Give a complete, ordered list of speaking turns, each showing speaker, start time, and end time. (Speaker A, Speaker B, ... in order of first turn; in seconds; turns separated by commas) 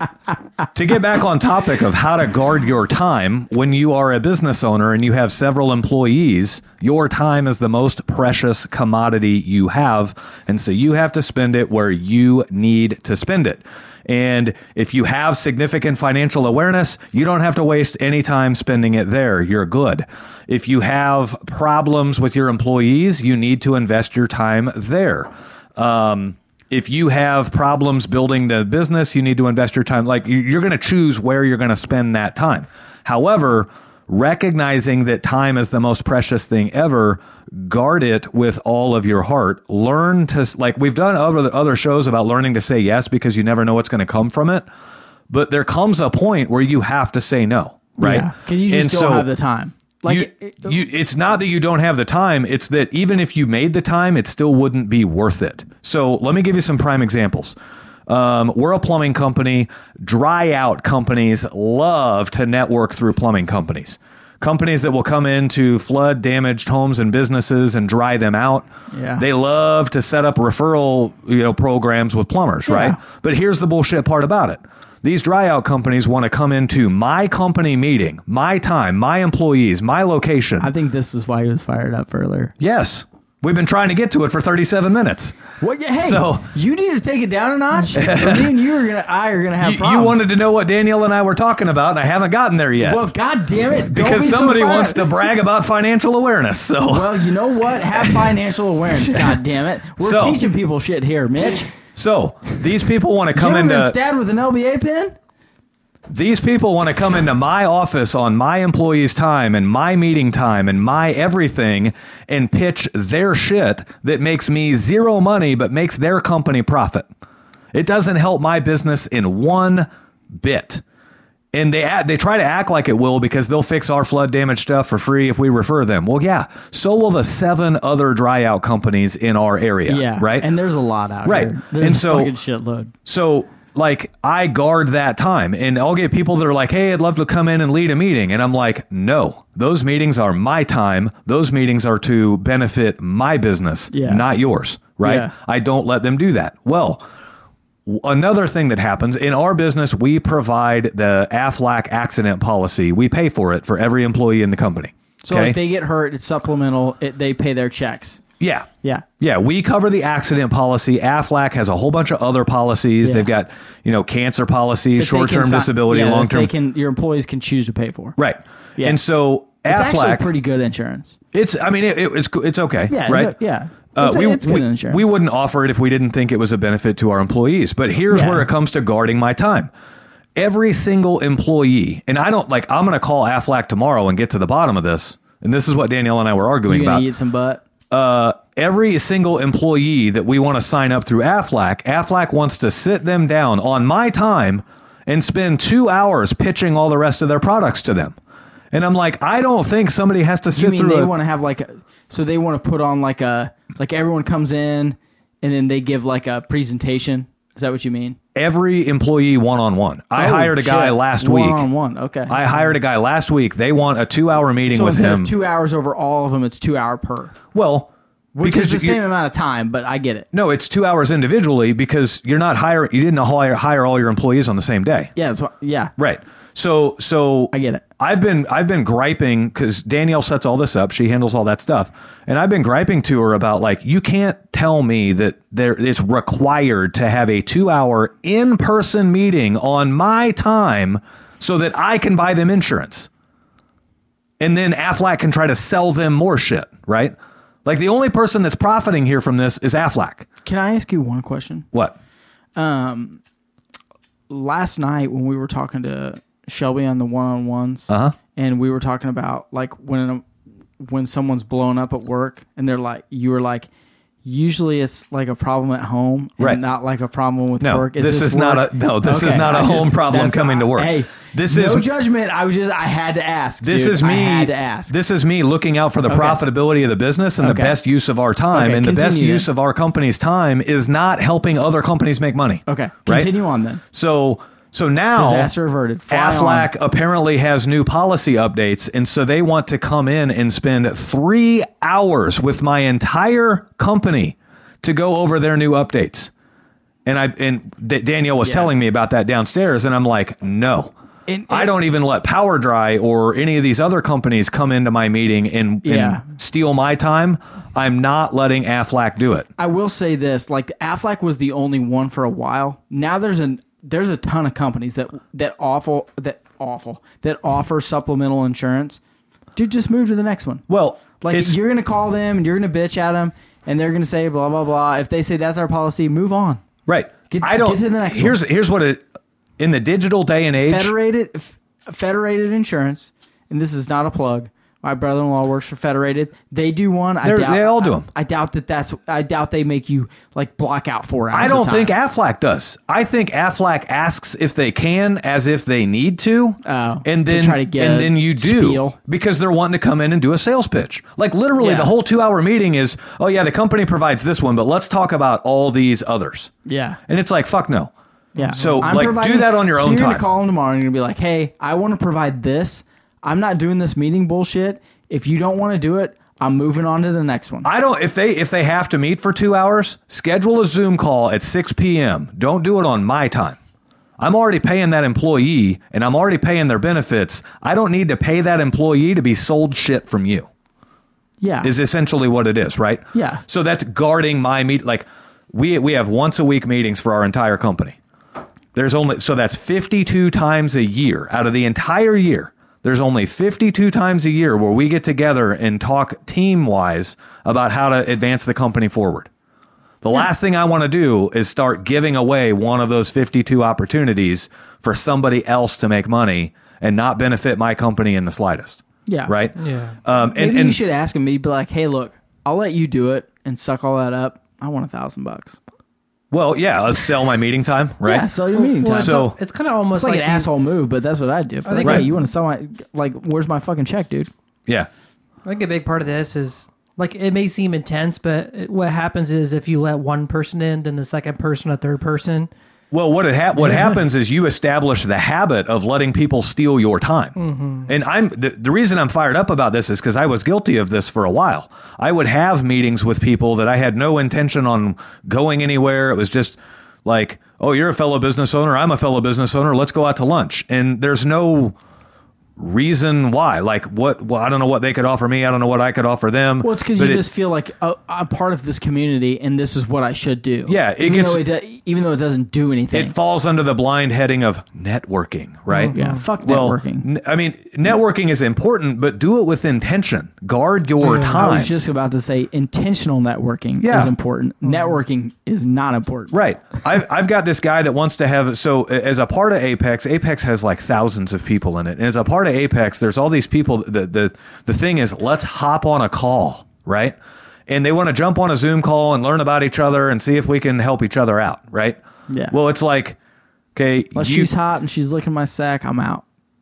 Speaker A: 0.7-44.6, Speaker A: 45.3-49.3, Speaker B: 48.0-50.8, Speaker A: 50.1-57.5, Speaker A: 58.1-68.7, Speaker B: 68.9-69.2, Speaker A: 69.2-80.7, Speaker B: 72.7-73.0, Speaker B: 80.6-82.5, Speaker A: 82.6-85.4, Speaker B: 85.6-90.3, Speaker A: 86.0-86.5, Speaker A: 87.9-88.5, Speaker A: 89.6-93.0, Speaker B: 92.8-95.2, Speaker A: 93.8-97.3, Speaker B: 96.9-101.7, Speaker A: 97.9-98.3, Speaker A: 100.0-100.4, Speaker A: 101.9-103.9, Speaker B: 103.3-105.1, Speaker A: 106.1-117.1, Speaker A: 117.7-120.8, Speaker A: 121.5-130.5, Speaker B: 129.9-132.9, Speaker A: 131.2-132.3, Speaker A: 133.1-147.0, Speaker B: 143.9-144.2, Speaker B: 145.0-145.3, Speaker A: 147.8-155.6, Speaker B: 155.2-158.2, Speaker A: 158.4-158.7, Speaker A: 159.2-166.5, Speaker B: 163.0-163.3, Speaker B: 165.0-168.2, Speaker A: 168.2-170.3, Speaker B: 169.7-171.2, Speaker A: 171.3-173.3, Speaker B: 172.9-175.1, Speaker A: 173.9-179.7, Speaker B: 178.1-178.4, Speaker A: 180.3-187.0, Speaker B: 186.7-187.6, Speaker A: 187.9-198.2, Speaker A: 198.7-201.1, Speaker B: 200.5-208.2, Speaker A: 208.3-211.7, Speaker B: 210.2-212.7, Speaker A: 212.3-215.3, Speaker B: 214.7-217.3, Speaker A: 217.5-217.9, Speaker B: 218.3-220.3, Speaker A: 218.4-219.0, Speaker A: 220.3-225.1, Speaker B: 225.2-225.9, Speaker A: 226.0-243.1, Speaker B: 227.5-227.8, Speaker A: 244.4-250.2, Speaker B: 250.4-251.7, Speaker B: 252.6-253.2, Speaker B: 254.3-260.2, Speaker A: 257.9-258.1, Speaker B: 260.8-263.7, Speaker B: 264.2-274.9, Speaker A: 267.6-271.9, Speaker A: 273.6-283.3, Speaker B: 276.1-276.4, Speaker B: 277.4-277.8, Speaker B: 278.5-279.5, Speaker B: 282.6-283.8, Speaker A: 283.9-285.5, Speaker B: 285.1-286.7, Speaker A: 286.1-296.3, Speaker A: 297.1-300.9, Speaker B: 298.4-298.7, Speaker B: 301.3-301.7, Speaker A: 301.5-309.5, Speaker B: 305.8-306.2, Speaker B: 309.6-319.0, Speaker B: 319.6-320.6, Speaker A: 320.7-321.6, Speaker B: 321.2-326.6, Speaker A: 326.9-329.0, Speaker B: 327.3-328.4, Speaker A: 329.6-330.9, Speaker B: 330.6-341.9, Speaker A: 337.2-338.1, Speaker A: 341.3-356.5, Speaker B: 346.6-348.9, Speaker B: 351.6-351.9, Speaker B: 356.6-357.0, Speaker A: 357.1-357.9, Speaker B: 358.4-367.7, Speaker A: 358.5-360.2, Speaker A: 367.6-373.6, Speaker A: 374.2-380.5, Speaker B: 381.4-381.7, Speaker A: 381.6-388.0, Speaker B: 383.1-383.4, Speaker A: 388.7-399.3, Speaker A: 400.0-410.8, Speaker B: 409.1-409.3, Speaker C: 409.6-409.9, Speaker B: 410.2-415.6, Speaker A: 416.3-418.3, Speaker B: 418.0-419.2, Speaker C: 418.5-420.5, Speaker A: 418.9-419.4, Speaker B: 419.9-424.3, Speaker C: 421.6-422.1, Speaker C: 425.4-432.5, Speaker A: 432.9-451.8, Speaker C: 433.6-433.9, Speaker C: 437.4-437.9, Speaker A: 452.6-457.2, Speaker B: 456.6-463.1, Speaker A: 460.7-461.4, Speaker A: 462.9-471.7, Speaker C: 465.7-466.2, Speaker B: 465.9-467.1, Speaker B: 471.0-476.3, Speaker C: 471.1-471.3, Speaker A: 473.8-474.1, Speaker A: 476.3-487.2, Speaker A: 487.7-492.0, Speaker B: 492.3-492.5, Speaker A: 492.5-493.2, Speaker A: 493.7-494.5, Speaker B: 494.1-496.2